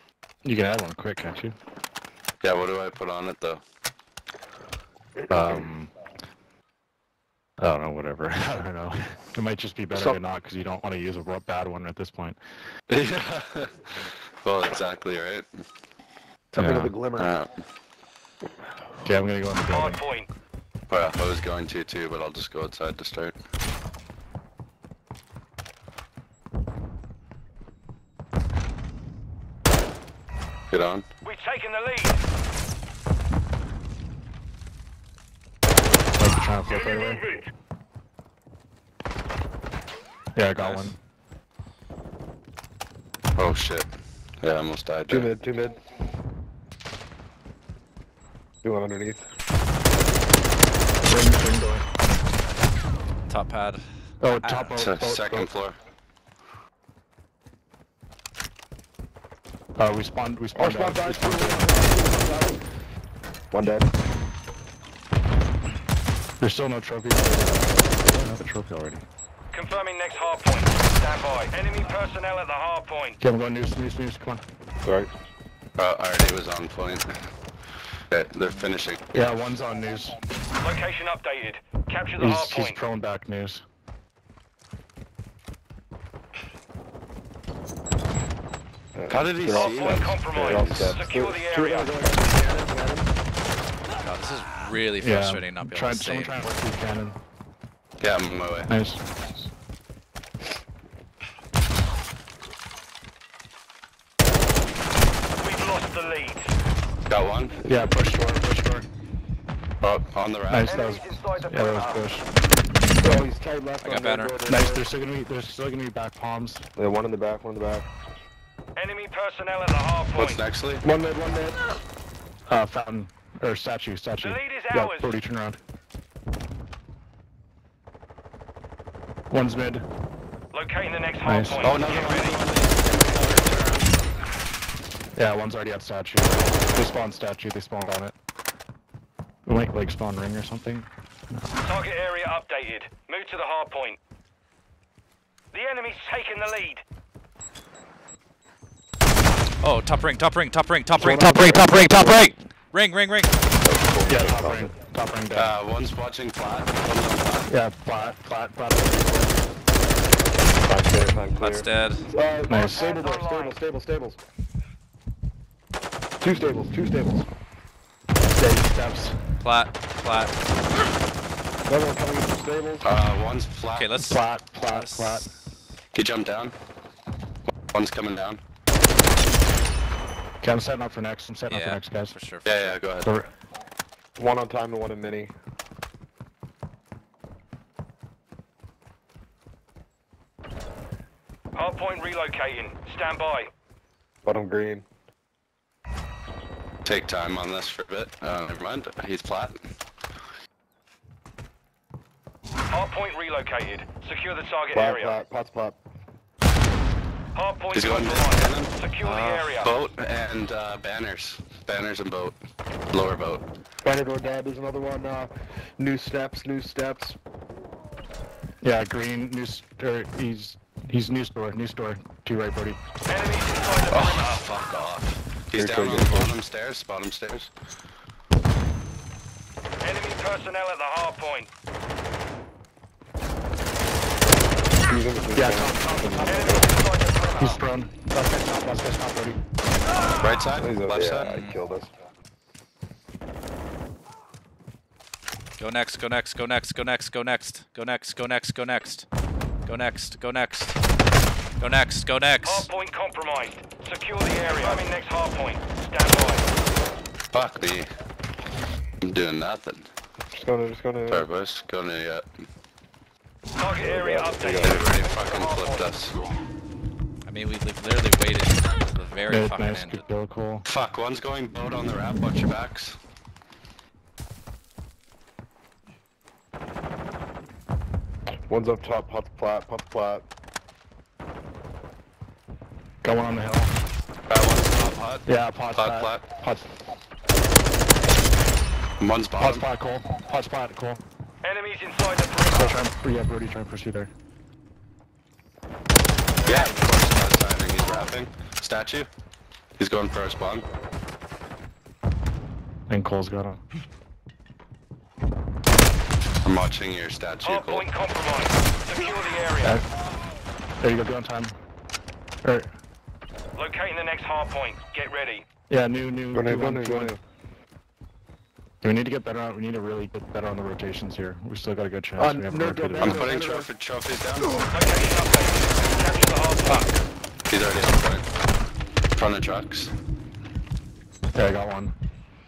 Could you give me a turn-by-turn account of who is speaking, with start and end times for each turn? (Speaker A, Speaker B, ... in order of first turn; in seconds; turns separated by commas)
Speaker A: 0.4-1.6, Speaker B: 2.4-3.6, Speaker A: 5.3-5.9, Speaker A: 7.6-12.4, Speaker B: 12.9-13.7, Speaker B: 14.4-15.5, Speaker C: 16.5-17.3, Speaker A: 16.6-16.9, Speaker B: 17.2-17.5, Speaker A: 19.0-20.0, Speaker D: 19.7-20.3, Speaker B: 20.9-23.4, Speaker B: 30.7-31.1, Speaker D: 31.2-32.2, Speaker A: 36.2-37.2, Speaker A: 40.4-41.0, Speaker E: 40.6-40.9, Speaker B: 43.4-43.9, Speaker B: 44.4-45.3, Speaker C: 45.1-45.8, Speaker C: 48.6-49.2, Speaker A: 51.0-51.9, Speaker E: 53.3-54.8, Speaker A: 54.2-55.5, Speaker B: 54.8-55.8, Speaker A: 59.8-61.7, Speaker C: 60.5-62.6, Speaker C: 63.5-63.9, Speaker A: 66.4-69.0, Speaker D: 69.5-73.2, Speaker A: 73.2-74.4, Speaker C: 74.8-75.1, Speaker B: 75.8-77.1, Speaker B: 78.1-79.0, Speaker A: 79.1-80.2, Speaker D: 80.6-82.8, Speaker A: 82.2-83.6, Speaker C: 89.0-93.1, Speaker B: 89.1-91.0, Speaker D: 89.6-92.0, Speaker E: 94.0-96.5, Speaker A: 95.0-97.2, Speaker B: 98.0-98.7, Speaker A: 98.7-99.0, Speaker D: 105.4-106.5, Speaker B: 107.1-107.6, Speaker A: 107.6-108.9, Speaker B: 109.8-110.8, Speaker A: 110.5-112.3, Speaker D: 110.7-112.0, Speaker C: 113.0-114.8, Speaker E: 113.8-114.4, Speaker A: 114.5-116.7, Speaker C: 116.8-117.9, Speaker D: 118.8-120.4, Speaker B: 120.2-120.8, Speaker C: 120.8-121.6, Speaker A: 122.5-125.6, Speaker D: 124.2-125.1, Speaker A: 129.3-129.8, Speaker D: 130.5-132.4, Speaker A: 131.2-131.7, Speaker B: 131.6-133.9, Speaker A: 135.2-138.1, Speaker A: 139.5-141.4, Speaker D: 141.6-144.0, Speaker D: 145.5-146.8, Speaker E: 149.6-153.3, Speaker C: 150.9-152.3, Speaker C: 153.6-154.7, Speaker A: 154.1-155.6, Speaker B: 155.3-157.5, Speaker A: 157.5-159.3, Speaker C: 160.6-164.2, Speaker E: 161.4-162.1, Speaker A: 162.5-162.9, Speaker D: 162.6-163.6, Speaker C: 166.2-167.3, Speaker A: 168.4-169.2, Speaker E: 169.4-170.4, Speaker C: 171.7-172.9, Speaker B: 172.8-173.9, Speaker E: 173.8-175.3, Speaker A: 174.0-175.3, Speaker B: 175.9-176.6, Speaker B: 177.7-178.4, Speaker A: 180.4-182.2, Speaker E: 181.5-182.8, Speaker B: 182.4-183.1, Speaker A: 183.0-183.3, Speaker C: 184.2-185.3, Speaker D: 191.6-193.5, Speaker C: 194.2-194.9, Speaker B: 196.8-199.6, Speaker D: 202.7-205.2, Speaker C: 204.7-205.8, Speaker D: 207.3-209.7, Speaker B: 207.7-208.7, Speaker E: 209.1-209.4, Speaker B: 209.4-212.4, Speaker B: 212.9-213.5, Speaker C: 213.8-217.2, Speaker A: 218.6-222.8, Speaker D: 223.1-224.4, Speaker B: 223.9-227.5, Speaker C: 225.6-226.3, Speaker D: 229.8-231.5, Speaker C: 234.9-236.7, Speaker A: 235.3-236.7, Speaker D: 236.2-237.6, Speaker A: 237.4-239.4, Speaker B: 240.2-241.3, Speaker C: 240.6-241.9, Speaker E: 241.2-241.6, Speaker E: 245.6-249.1, Speaker E: 249.7-250.8, Speaker E: 251.6-252.7, Speaker D: 252.4-256.5, Speaker B: 257.3-257.9, Speaker B: 259.0-259.9, Speaker C: 260.3-261.3, Speaker B: 261.1-262.2, Speaker D: 263.6-266.0, Speaker C: 263.8-264.9, Speaker B: 264.6-266.2, Speaker E: 267.2-270.0, Speaker A: 269.3-270.7, Speaker B: 270.7-273.0, Speaker C: 278.5-280.2, Speaker A: 283.0-283.7, Speaker B: 284.3-285.2, Speaker A: 285.2-286.7, Speaker B: 285.8-286.2, Speaker B: 289.0-289.7, Speaker A: 289.4-291.0, Speaker D: 291.4-292.8, Speaker A: 292.5-294.1, Speaker B: 296.4-299.1, Speaker B: 299.8-300.7, Speaker A: 302.9-303.6, Speaker B: 306.4-307.9, Speaker D: 307.4-309.8, Speaker A: 310.8-311.6, Speaker A: 312.4-312.7, Speaker D: 313.6-315.4, Speaker A: 315.7-317.2, Speaker C: 316.3-317.2, Speaker A: 318.8-323.3, Speaker C: 322.2-323.7, Speaker B: 323.0-324.6, Speaker D: 324.7-326.9, Speaker B: 327.5-328.2, Speaker B: 329.1-329.9, Speaker A: 331.4-331.9